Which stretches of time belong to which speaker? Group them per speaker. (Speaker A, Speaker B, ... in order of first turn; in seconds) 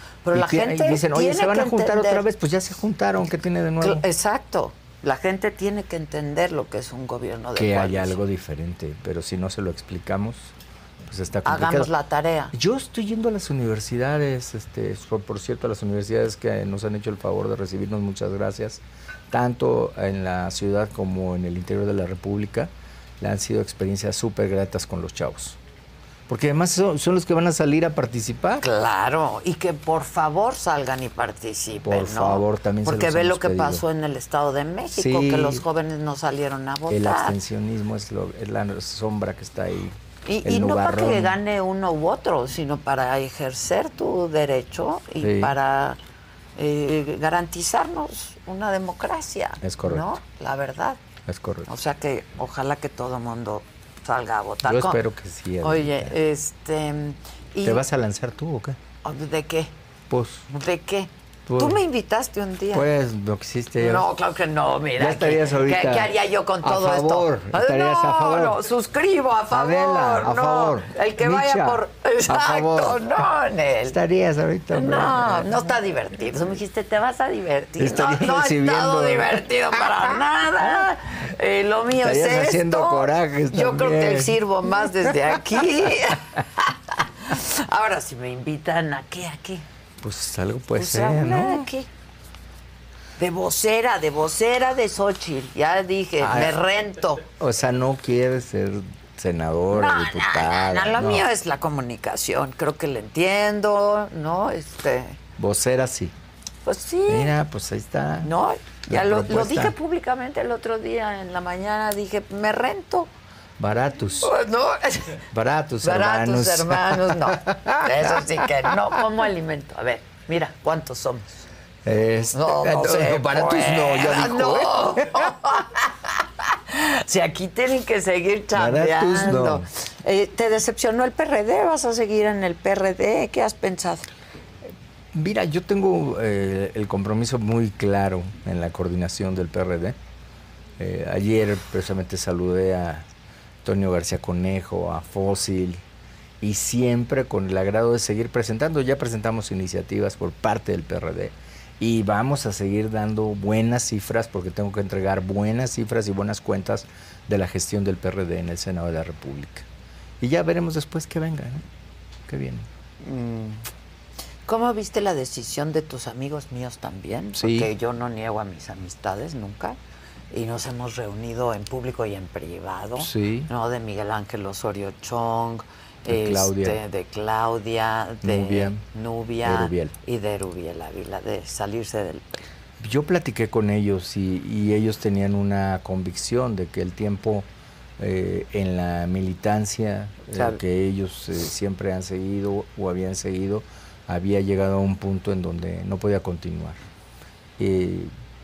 Speaker A: 0.2-2.2, 3.8-8.2, 11.5-12.5, 28.6-37.4, 40.3-46.0, 46.6-51.0, 51.7-55.0, 55.6-57.8, 59.0-59.7, 60.5-62.9, 63.8-74.0, 74.7-89.7, 90.8-91.9, 93.2-97.2, 99.7-105.2, 106.7-107.3, 108.2-113.1, 114.2-115.2, 115.8-121.4, 122.3-134.1, 163.0-163.7, 164.5-169.8, 170.3-182.4
Speaker B: 0.3-4.0, 7.5-10.5, 11.1-11.9, 12.5-25.6, 26.3-28.6, 31.8-33.9, 34.9-35.6, 36.9-41.4, 45.2-45.5, 49.6-50.1, 51.3-51.7, 54.6-56.2, 57.6-58.8, 60.1-60.5, 61.5-61.8, 62.7-64.1, 65.0-68.6, 69.5-73.0, 73.9-75.6, 77.8-79.4, 82.0-84.4, 90.0-91.7, 96.2-96.6, 97.3-101.3, 105.4-106.1, 107.1-108.3, 108.9-109.8, 113.6-114.3, 115.3-118.2, 121.8-125.3, 128.5-129.7, 134.7-140.0, 140.8-143.1, 143.6-145.8, 146.4-159.7, 160.2-161.6, 162.3-162.7, 167.3-167.7, 173.0-173.5, 176.1-176.8, 178.2-178.8, 179.4-179.9, 182.8-187.5, 188.0-196.8, 197.6-198.1